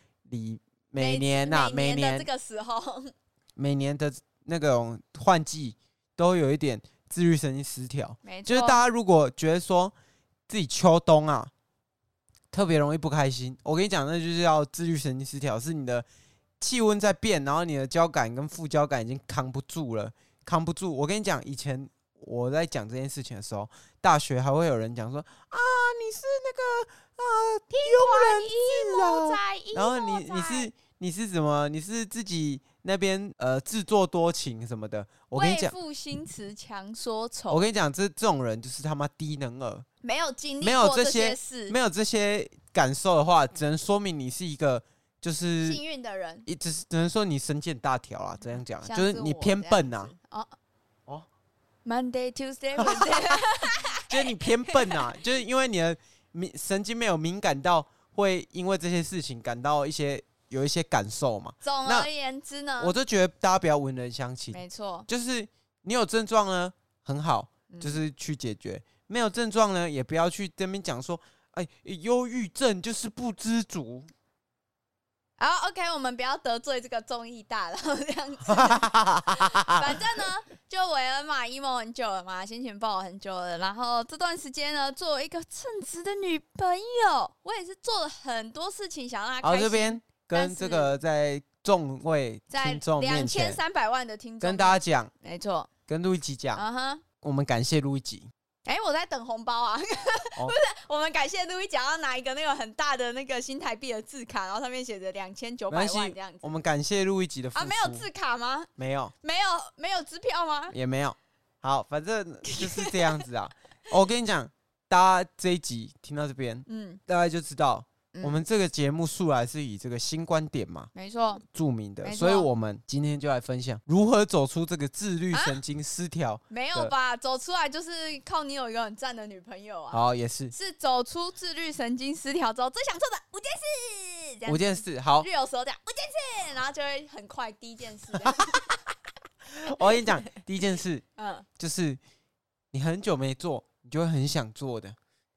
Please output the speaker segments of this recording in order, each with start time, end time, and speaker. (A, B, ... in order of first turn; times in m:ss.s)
0:00.3-0:02.3 A
0:01.0-0:03.1 B
0:03.6-0:09.9 A
0:08.2-0:08.8 B
0:10.5-0:11.5 A
0:12.5-0:16.1 A
0:16.6-0:35.8 A
0:27.7-0:30.7 B
0:35.3-0:37.7 B
0:37.5-0:39.9 A
0:40.0-0:41.8 B
0:40.6-0:45.8 A
0:45.6-0:46.5 B
0:46.5-0:50.1 A
0:48.8-0:50.5 B
0:51.8-0:55.0 B
0:52.8-0:53.4 A
0:54.1-1:02.1 A
1:01.6-1:03.0 B
1:02.8-1:14.1 A
1:04.5-1:05.1 B
1:07.7-1:08.0 B
1:15.4-1:31.0 B
1:18.5-1:19.8 A
1:29.4-1:33.6 A
1:32.5-1:35.7 B
1:34.4-1:35.1 A
1:35.9-1:36.6 A
1:36.6-1:37.0 B
1:37.2-1:38.3 A
1:38.7-1:46.6 B
1:45.7-1:48.1 A
1:47.6-1:48.7 B
1:48.8-1:49.1 A
1:49.2-1:50.8 B
1:50.7-2:00.9 A
1:52.5-1:53.1 B
1:56.7-1:57.0 B
1:58.1-1:58.4 B
2:01.0-2:01.4 B
2:01.5-2:06.9 A
2:02.0-2:02.5 B
2:05.3-2:05.6 B
2:06.5-2:10.0 B
2:09.9-2:10.5 A
2:10.5-2:18.7 B
2:14.5-2:15.3 A
2:19.6-2:21.0 A
2:19.8-2:20.2 B
2:21.2-2:21.5 B
2:21.6-2:22.0 A
2:22.7-2:25.0 A